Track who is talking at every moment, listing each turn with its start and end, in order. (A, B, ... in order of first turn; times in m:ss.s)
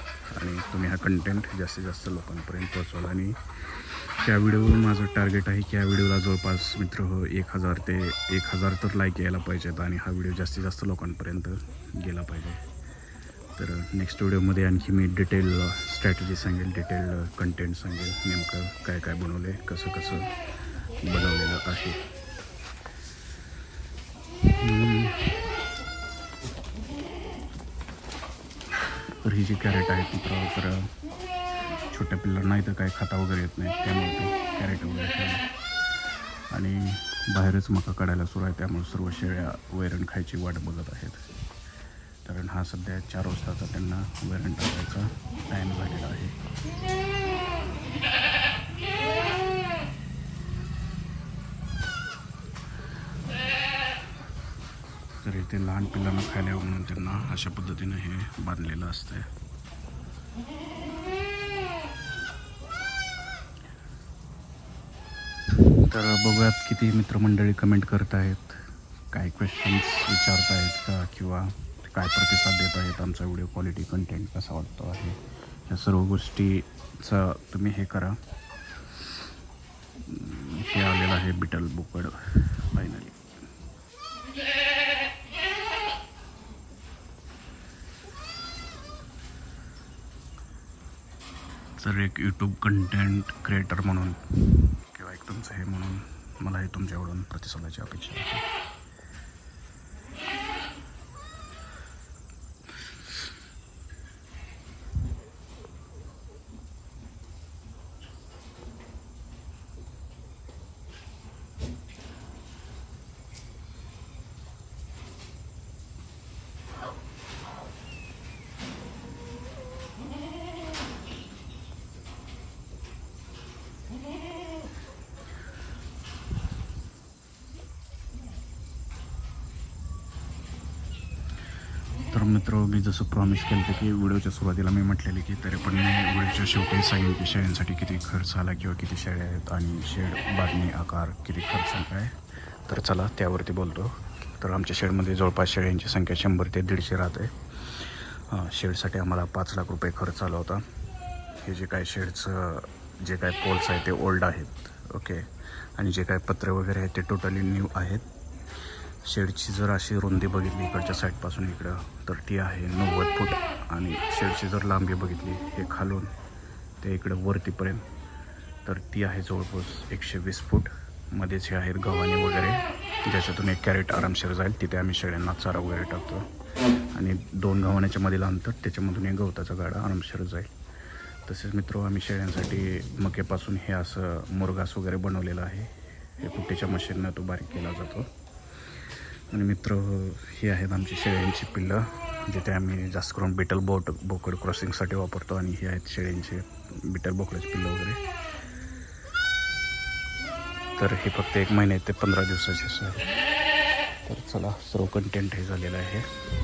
0:00.3-0:12.6 A
0:13.6-0:20.3 A
0:21.0-0:22.0 A
0:24.5-0:25.5 A
0:29.2-0:30.9 A
0:31.9-0:35.5 A
0:36.5-0:41.2 A
0:42.2-0:46.4 A
0:55.2-0:59.3 A
1:05.8-1:18.2 A
1:20.0-1:23.2 A
1:31.8-1:38.4 A
2:12.1-2:30.6 A
2:31.4-2:38.0 A
2:39.0-2:46.1 A
2:46.8-2:47.8 A
2:48.6-2:56.3 A
2:56.9-3:00.5 A
3:01.2-3:08.1 A
3:09.3-3:18.0 A
3:20.8-3:23.1 A
3:24.0-3:26.1 A